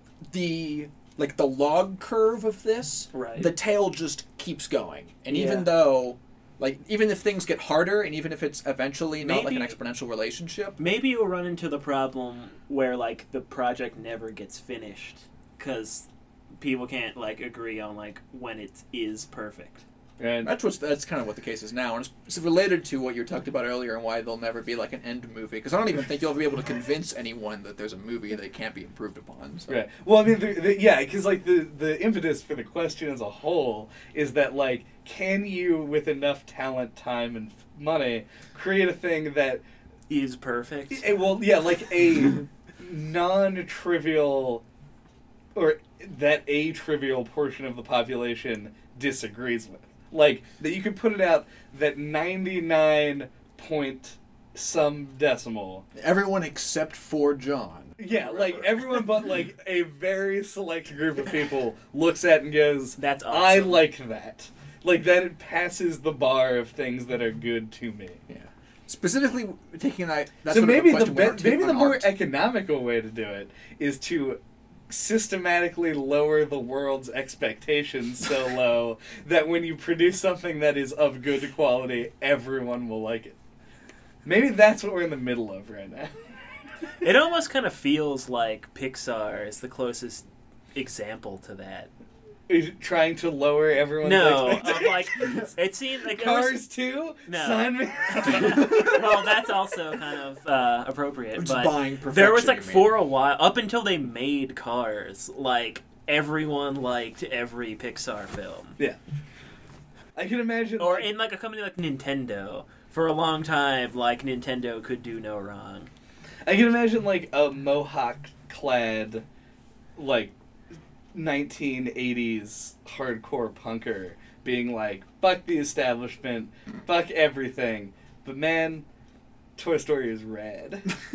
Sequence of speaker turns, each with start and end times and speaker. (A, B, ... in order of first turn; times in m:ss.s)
0:00.2-0:10.8 A
0:03.1-0:03.5 B
0:05.3-0:05.8 B
0:09.2-0:09.8 B
0:10.8-0:19.8 B
0:20.2-0:20.5 C
0:20.4-0:29.8 A
0:29.7-0:39.6 C
0:40.1-0:41.1 B
0:40.9-0:44.6 C
0:45.6-0:55.9 C
0:56.0-0:58.8 A
0:58.0-1:08.2 C
1:03.0-1:03.8 B
1:08.3-1:12.1 A
1:10.5-1:23.4 C
1:24.2-1:26.1 C
1:27.0-1:31.9 B
1:32.5-1:35.5 C
1:34.0-1:36.6 B
1:36.1-1:39.4 C
1:37.3-1:48.8 B
1:41.3-1:42.9 A
1:50.2-1:51.1 C
1:50.8-1:55.9 B
1:56.4-1:59.2 C
2:00.0-2:00.3 C
2:01.1-2:08.9 C
2:09.6-2:11.0 C